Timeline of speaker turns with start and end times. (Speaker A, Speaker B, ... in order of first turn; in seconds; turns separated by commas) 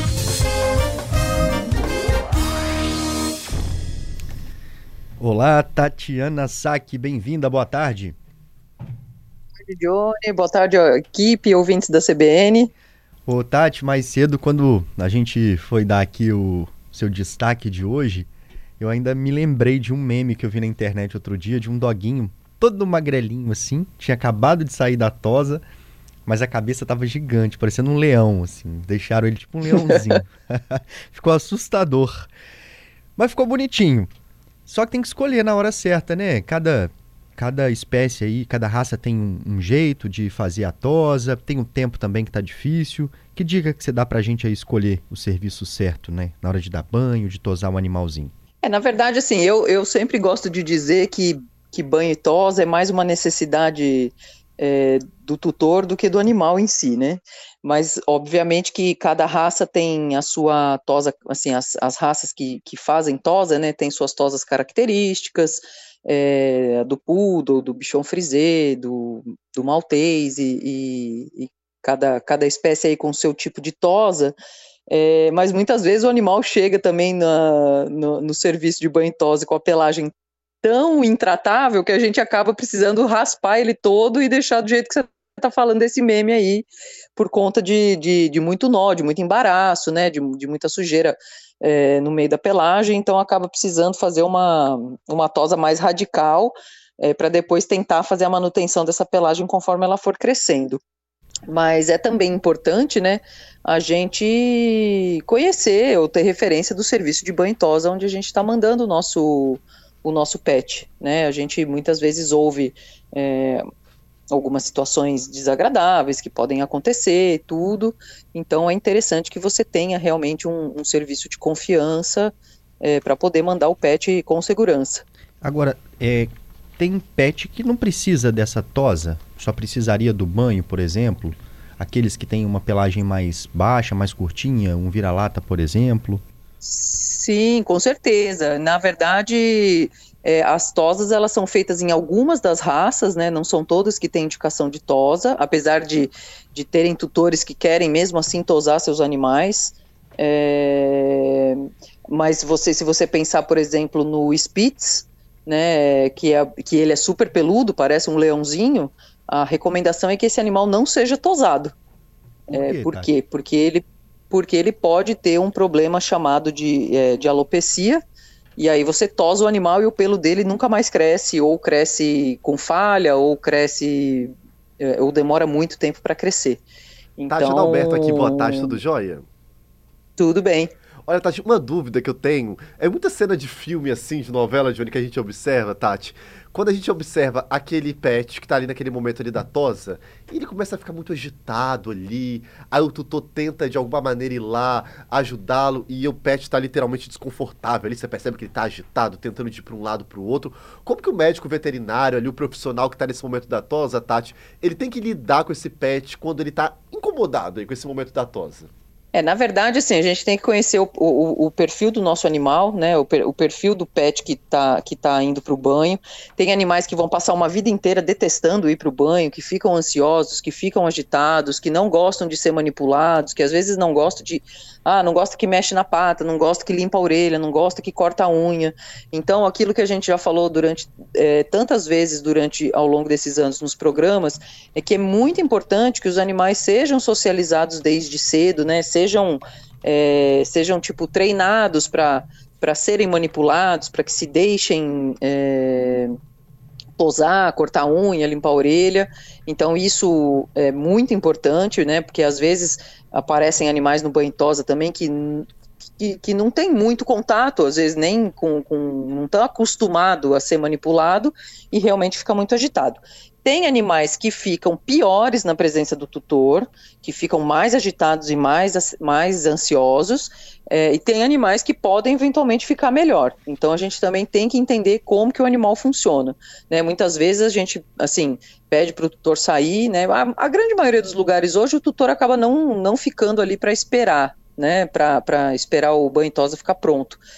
Speaker A: 5.2-8.2, Speaker B: 9.7-12.7, Speaker A: 13.3-18.3, Speaker A: 18.8-25.6, Speaker A: 26.3-32.3, Speaker B: 29.7-30.2, Speaker A: 33.2-34.1, Speaker A: 34.7-48.3, Speaker B: 48.6-74.3, Speaker B: 74.9-100.8, Speaker B: 101.5-113.6, Speaker B: 114.3-125.0, Speaker A: 125.4-136.2, Speaker B: 136.6-161.7, Speaker A: 162.5-163.1, Speaker B: 162.5-168.0, Speaker B: 168.6-176.6, Speaker B: 177.2-178.8, Speaker C: 177.3-179.2, Speaker B: 180.2-180.7, Speaker C: 181.1-208.7, Speaker B: 209.1-246.1, Speaker B: 247.0-287.2